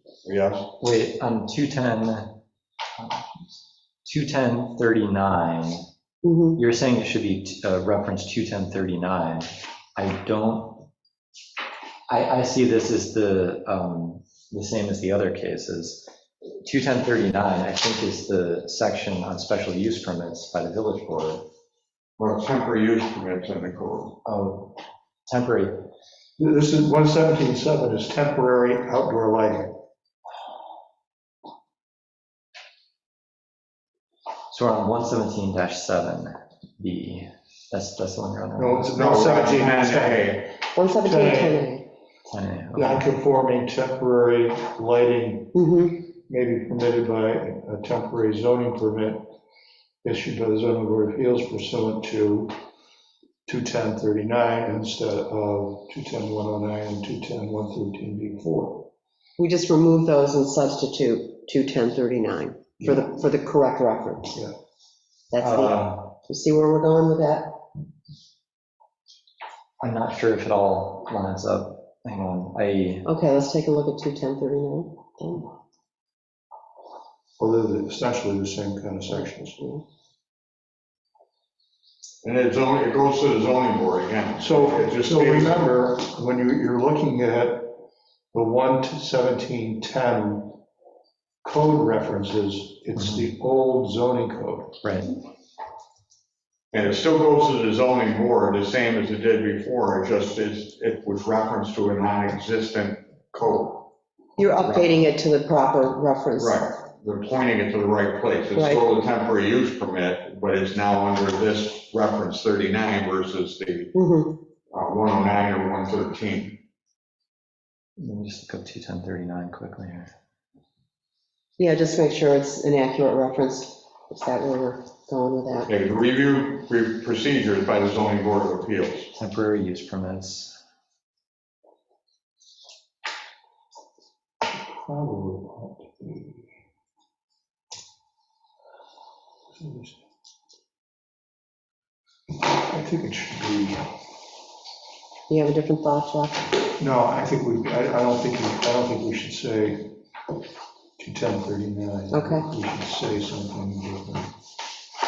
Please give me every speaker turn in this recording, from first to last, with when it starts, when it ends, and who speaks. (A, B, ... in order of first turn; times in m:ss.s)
0:00.2-0:00.7 A
0:00.8-0:02.3 B
0:04.0-0:05.8 B
0:06.2-0:06.6 C
0:06.6-0:10.8 B
0:12.1-0:16.1 B
0:16.6-0:21.4 B
0:22.2-0:24.2 A
0:24.2-0:24.8 B
0:25.3-0:25.7 B
0:26.4-0:29.7 D
0:34.5-0:39.0 B
0:38.6-0:41.6 D
0:38.9-0:40.5 A
0:40.7-0:41.8 C
0:42.3-0:43.0 B
0:42.8-0:45.6 D
0:45.5-0:46.0 C
0:46.2-0:49.3 D
0:50.0-0:52.5 D
0:53.4-0:58.9 D
0:59.4-1:04.3 C
1:02.8-1:03.2 D
1:05.3-1:07.6 C
1:05.5-1:06.0 A
1:09.8-1:13.0 B
1:13.0-1:15.5 C
1:17.4-1:19.6 D
1:19.6-1:19.8 C
1:22.2-1:25.6 A
1:24.4-1:27.7 D
1:28.3-1:30.6 D
1:31.4-1:34.8 D
1:33.0-1:33.3 B
1:34.8-1:35.1 B
1:36.7-1:43.9 A
1:44.4-1:46.6 C
1:46.4-1:53.9 A
1:48.5-1:48.9 C
1:53.9-1:54.4 C
1:54.7-1:56.6 A
1:58.0-2:00.1 B
2:01.6-2:05.7 C
2:05.7-2:09.1 A
2:09.2-2:10.6 B
2:14.8-2:16.4 D
2:19.5-2:20.0 D
2:22.5-2:23.9 D
2:25.3-2:26.5 C
2:26.8-2:30.0 D
2:31.0-2:34.3 D
2:32.1-2:32.5 C